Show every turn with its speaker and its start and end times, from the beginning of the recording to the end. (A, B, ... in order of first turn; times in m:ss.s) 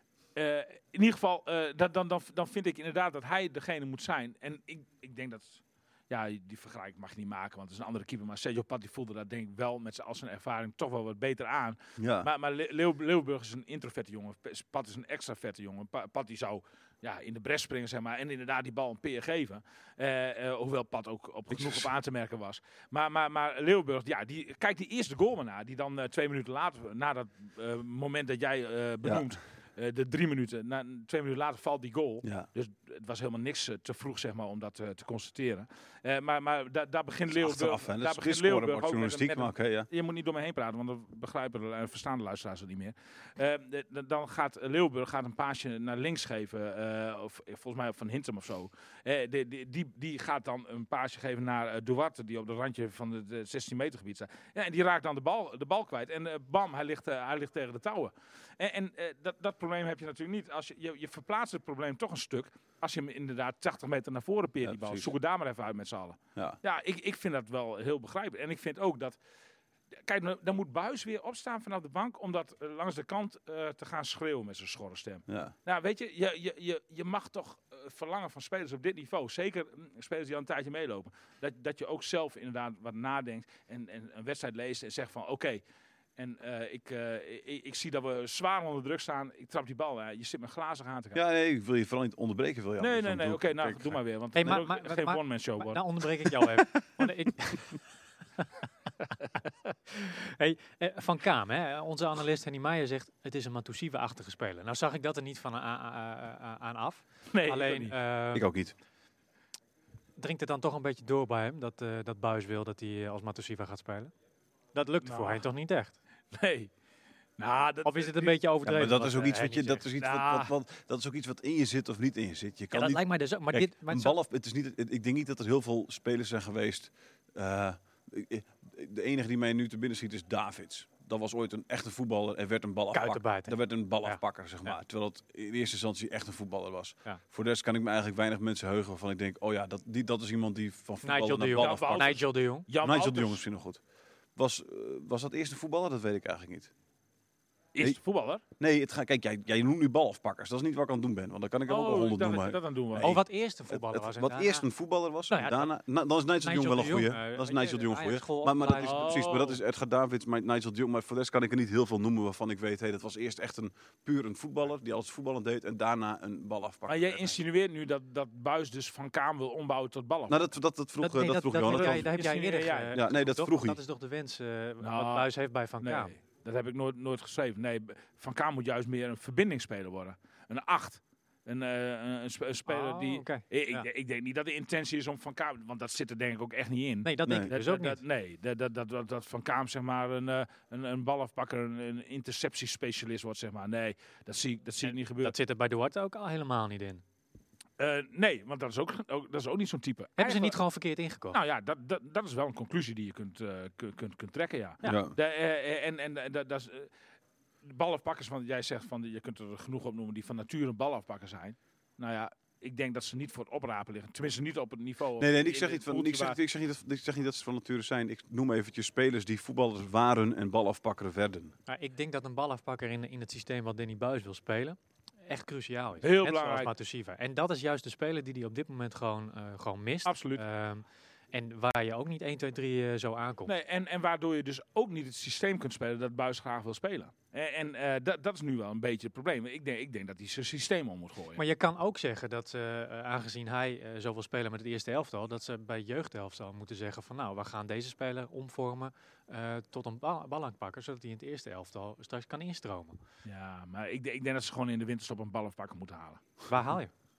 0:00.4-1:09.2 A
0:12.0-0:12.3 B
0:21.5-0:21.9 B
0:29.0-0:29.3 B
0:37.3-0:39.9 B
1:04.6-1:05.1 B
1:10.0-1:25.6 A
1:15.3-1:15.5 B
1:26.2-1:31.2 A
1:31.1-1:34.0 B
1:32.8-1:36.5 A
1:34.3-1:37.8 C
1:39.9-1:48.5 C
1:47.3-1:47.9 A
1:48.3-1:48.7 B
1:50.2-1:54.1 C
1:54.7-1:56.0 C
1:55.0-1:55.4 A
1:56.3-1:56.7 A
1:57.4-1:58.4 A
1:57.8-1:59.8 C
1:58.6-2:22.1 B
2:00.0-2:00.5 A
2:02.7-2:04.2 C
2:12.9-2:14.2 C
2:21.0-2:22.7 C
2:21.6-2:23.4 A
2:22.8-2:23.8 B
2:24.4-2:26.7 B
2:27.7-2:28.4 A
2:28.6-2:47.4 B
2:31.7-2:33.2 A
2:33.0-2:34.6 C
2:35.3-2:35.7 C
2:36.4-2:39.2 C
2:38.8-2:39.6 A
2:46.9-2:50.4 A
2:50.3-2:52.1 B
2:51.0-2:56.1 C
2:51.6-2:53.0 A
2:52.9-2:53.8 B
2:54.8-2:55.3 A
2:55.8-3:15.3 A
3:02.7-3:03.9 C
3:07.0-3:08.0 C
3:14.8-3:17.0 C
3:17.8-3:20.6 A
3:20.2-3:21.4 C
3:21.3-3:26.9 A
3:24.8-3:25.1 B
3:27.6-3:36.4 A
3:35.2-3:41.5 B
3:41.7-3:53.5 C
3:46.0-3:46.7 A
3:50.0-3:50.4 A
3:53.4-4:01.4 A
4:01.4-4:13.0 C
4:13.2-4:16.2 A
4:16.5-4:16.9 C